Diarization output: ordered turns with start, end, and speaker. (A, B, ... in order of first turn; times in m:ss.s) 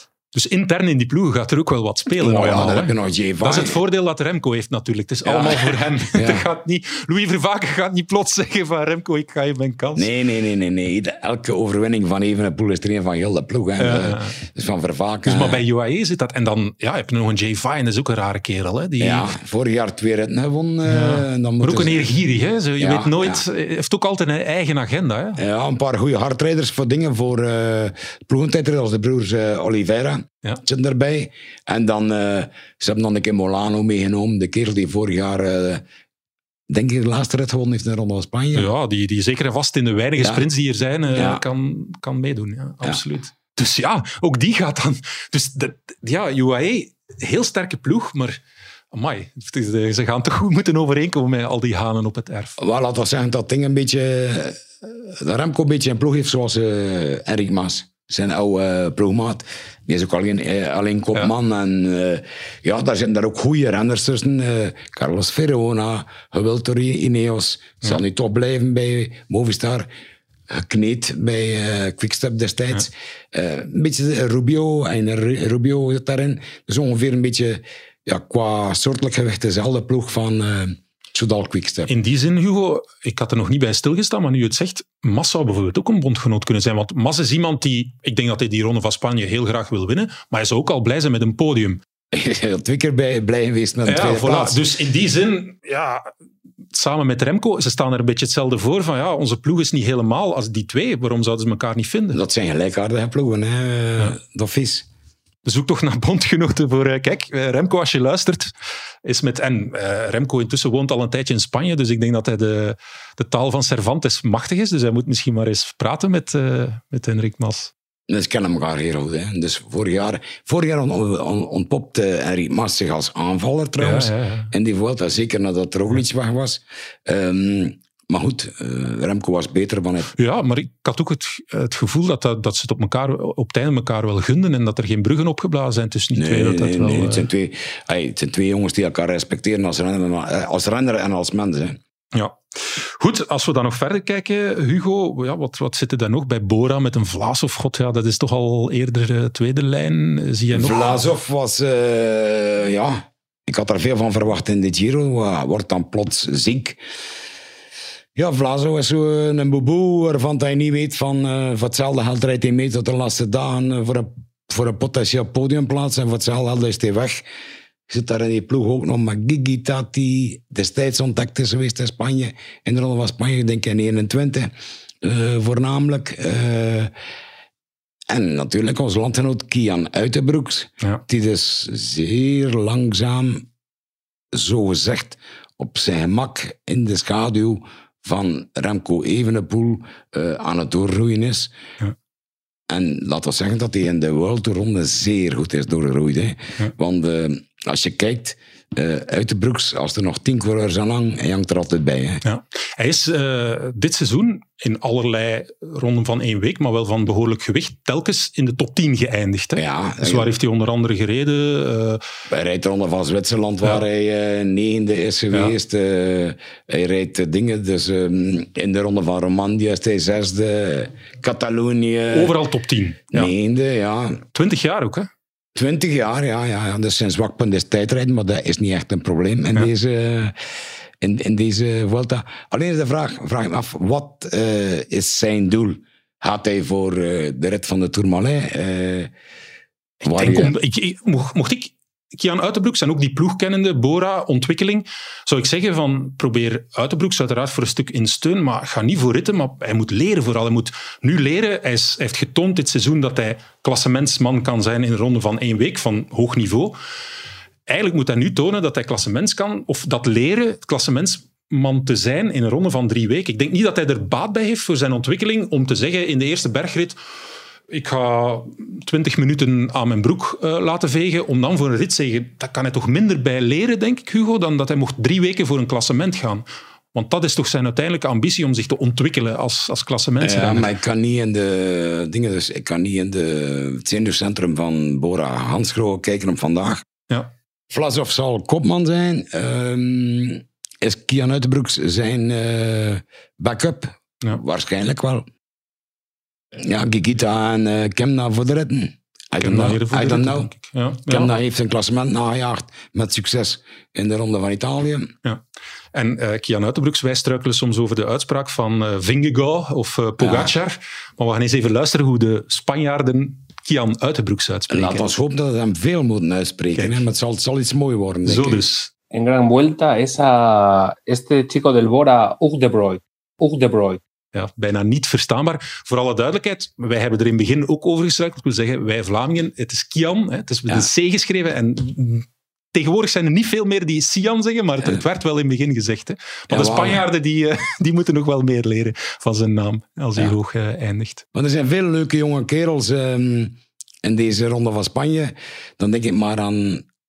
0:00.3-0:10.1 A
0:02.2-0:03.8 B
0:05.2-0:06.5 B
0:10.0-0:15.6 B
0:13.8-0:14.4 A
0:15.2-0:19.3 A
0:19.0-0:22.1 B
0:20.8-0:25.4 A
0:22.8-0:23.4 B
0:25.4-0:35.8 B
0:36.7-0:38.7 B
0:38.5-0:48.4 A
0:41.1-0:41.4 B
0:48.9-0:52.6 A
0:52.6-1:09.9 B
1:10.5-1:21.9 B
1:21.9-1:31.8 A
1:32.1-1:34.6 B
1:33.8-1:36.1 A
1:36.7-1:42.2 A
1:42.1-1:44.9 B
1:45.4-1:48.5 A
1:49.0-1:57.7 A
1:58.1-2:10.1 B
2:03.8-2:04.5 A
2:10.2-2:17.3 A
2:16.2-2:21.8 B
2:22.1-2:31.0 A
2:30.5-2:36.8 B
2:38.1-2:47.2 B
2:47.9-2:54.5 B
2:55.0-2:56.9 B
2:58.1-3:03.5 B
3:04.3-3:11.5 B
3:12.7-3:22.2 B
3:22.2-3:32.0 A
3:29.6-3:30.3 B
3:32.3-3:42.4 B
3:42.1-3:43.3 A
3:43.1-3:44.2 B
3:44.3-3:45.1 A
3:45.5-3:50.3 B
3:51.0-3:59.1 B
4:00.0-4:16.8 A
4:00.0-4:00.5 B
4:17.7-4:27.0 A
4:27.7-4:40.7 A
4:40.2-4:46.8 B
4:47.7-4:55.2 B
4:56.5-5:00.5 B
4:59.4-5:01.3 A
5:01.1-5:05.1 B
5:05.9-5:15.1 A
5:10.2-5:10.5 B
5:14.7-5:18.6 B
5:16.8-5:17.0 A
5:18.2-5:18.9 A
5:19.1-5:24.0 C
5:24.3-5:41.2 A
5:36.5-5:37.0 B
5:41.3-5:46.8 B